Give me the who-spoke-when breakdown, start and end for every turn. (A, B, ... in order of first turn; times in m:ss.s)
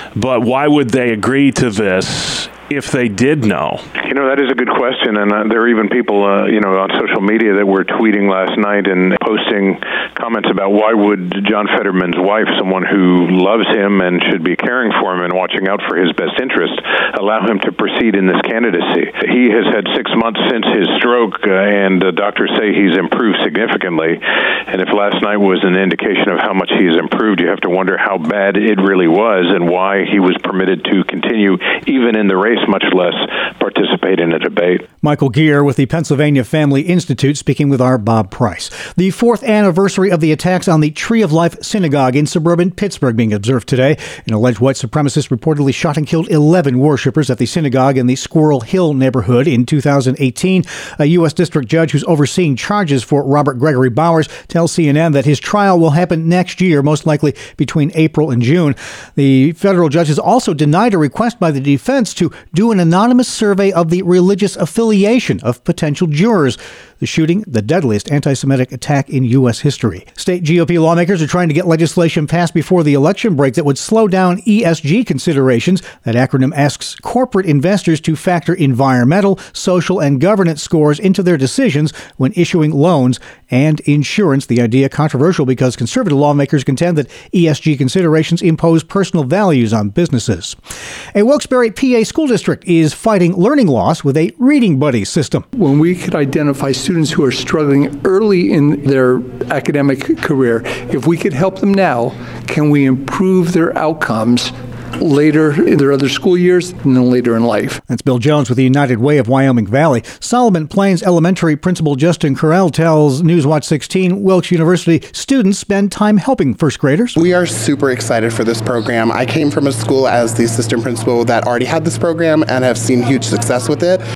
0:00.2-0:03.8 A
0:04.0-0:34.8 B
0:35.0-1:30.6 C
1:31.2-1:35.5 C
1:35.6-1:47.8 D
1:47.9-1:57.2 C
1:57.2-2:04.0 E